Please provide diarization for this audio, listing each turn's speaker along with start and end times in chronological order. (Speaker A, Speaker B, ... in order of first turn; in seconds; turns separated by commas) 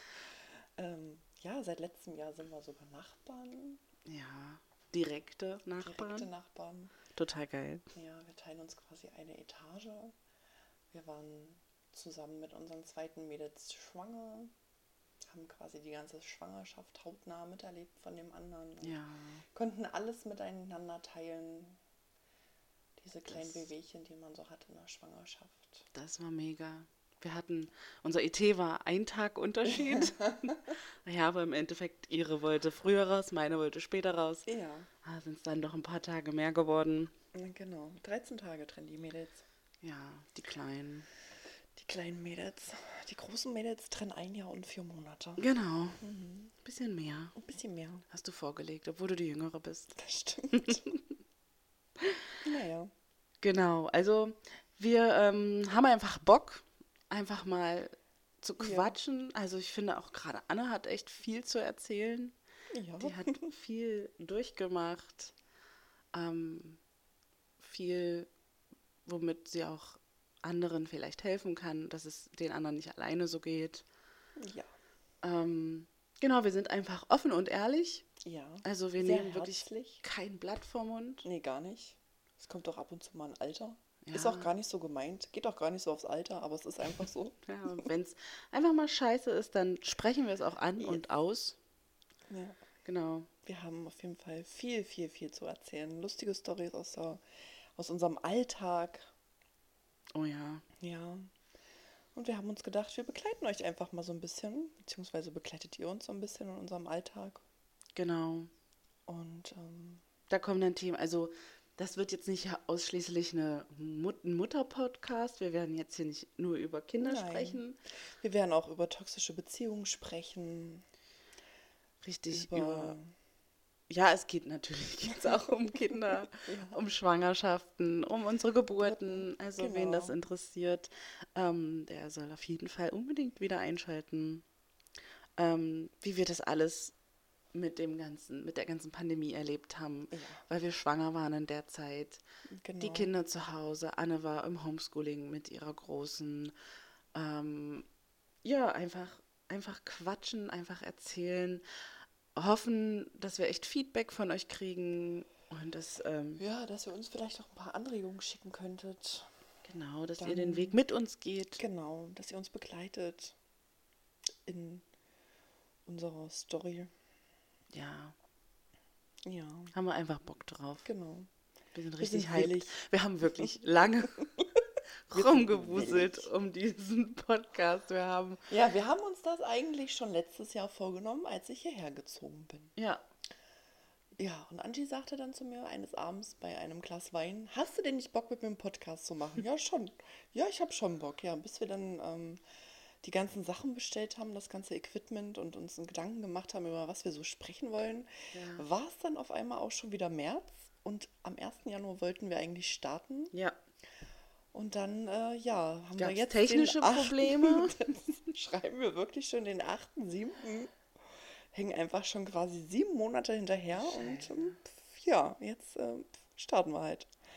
Speaker A: 0.8-3.8, Speaker B: 4.0-6.3, Speaker A: 5.8-6.9, Speaker B: 7.1-7.8, Speaker A: 7.9-10.1, Speaker A: 10.9-14.5, Speaker A: 15.2-19.0, Speaker B: 18.8-19.4, Speaker A: 19.5-21.8, Speaker A: 23.0-25.9, Speaker B: 23.3-23.7, Speaker B: 25.9-34.5, Speaker A: 29.7-30.1, Speaker A: 34.5-34.9, Speaker B: 35.0-37.1, Speaker A: 37.3-39.4, Speaker B: 39.8-41.1, Speaker A: 41.8-45.4, Speaker B: 45.4-46.0, Speaker A: 46.0-46.5, Speaker B: 46.6-47.3, Speaker A: 47.4-48.0, Speaker B: 48.1-50.0, Speaker A: 50.0-50.8, Speaker B: 50.5-51.0, Speaker A: 52.4-52.9, Speaker B: 53.4-62.3, Speaker A: 58.6-58.9, Speaker A: 62.7-63.5, Speaker B: 63.0-65.3, Speaker B: 66.1-66.8, Speaker B: 67.6-68.3, Speaker B: 69.0-73.8, Speaker A: 74.4-74.7, Speaker B: 75.2-78.0, Speaker A: 78.2-80.0, Speaker B: 78.6-81.2, Speaker A: 81.2-87.9, Speaker B: 84.0-84.5, Speaker B: 87.4-91.6, Speaker A: 92.3-92.6, Speaker B: 92.8-93.3, Speaker A: 93.5-97.2, Speaker A: 97.8-99.0, Speaker B: 100.1-100.6, Speaker A: 100.8-101.3, Speaker A: 102.1-107.4, Speaker B: 107.9-108.5, Speaker A: 109.1-110.0, Speaker B: 110.3-117.8, Speaker A: 117.0-117.6, Speaker A: 118.2-120.8, Speaker B: 122.0-123.0, Speaker A: 122.3-123.1, Speaker B: 123.9-134.4, Speaker A: 126.5-126.8, Speaker A: 128.7-130.2, Speaker B: 135.4-136.9, Speaker B: 137.5-142.2, Speaker A: 140.1-140.4, Speaker A: 142.5-143.1, Speaker B: 142.8-146.5, Speaker B: 147.1-147.9, Speaker B: 148.4-151.6, Speaker B: 152.3-156.4, Speaker A: 156.4-159.3, Speaker B: 159.6-161.6, Speaker A: 160.2-160.8, Speaker A: 161.6-163.3, Speaker A: 164.4-164.8, Speaker A: 165.8-166.9, Speaker B: 167.7-168.2, Speaker A: 169.2-169.7, Speaker B: 169.7-170.9, Speaker A: 170.8-171.3, Speaker B: 171.7-174.3, Speaker A: 172.0-172.8, Speaker B: 175.1-178.4, Speaker A: 175.1-176.3, Speaker A: 178.5-182.7, Speaker B: 182.8-183.0, Speaker A: 184.2-192.4, Speaker A: 193.0-203.3, Speaker B: 198.3-198.7, Speaker B: 203.3-203.6, Speaker A: 204.5-210.7, Speaker B: 206.0-207.8, Speaker A: 211.5-217.1, Speaker B: 213.7-214.6